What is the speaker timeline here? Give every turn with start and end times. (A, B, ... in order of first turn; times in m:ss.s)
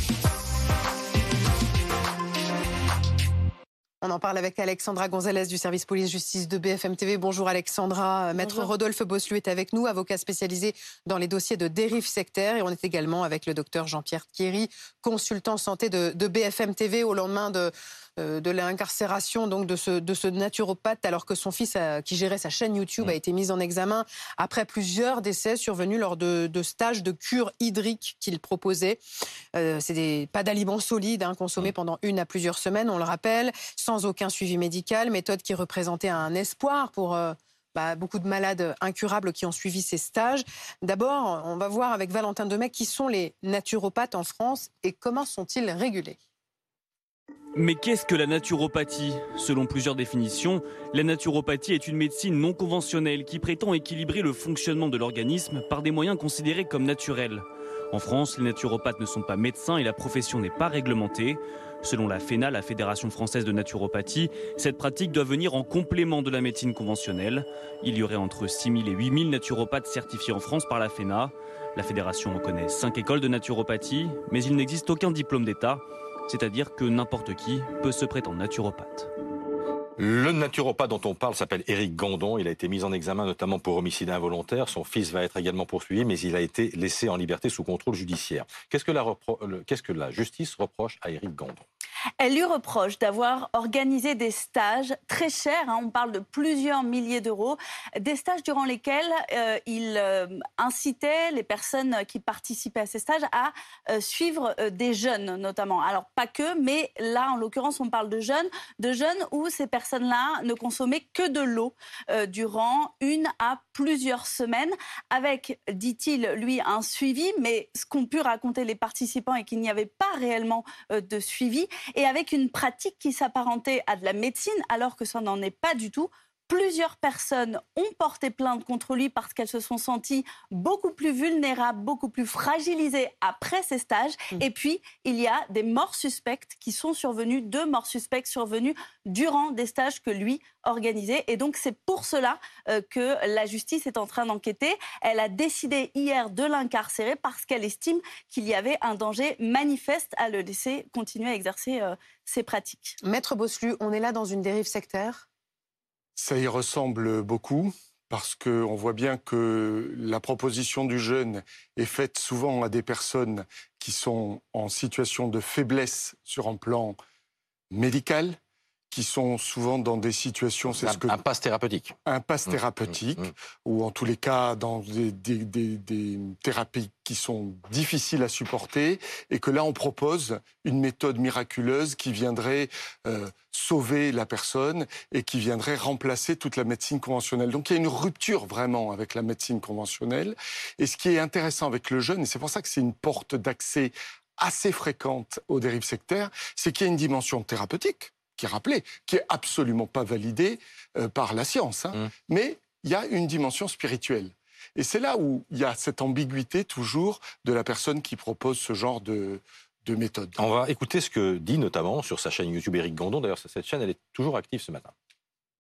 0:04.0-0:29.0 A
0:29.6-0:46.2 A
0:47.6-1:19.1 B
1:20.0-1:31.6 C
1:32.2-2:33.0 D
2:33.0-2:35.2 A
2:36.2-2:47.0 E
2:47.7-2:48.4 E
2:48.9-2:51.2 E
2:50.8-2:52.0 C
2:52.0-3:30.4 E
3:30.4-3:34.9 C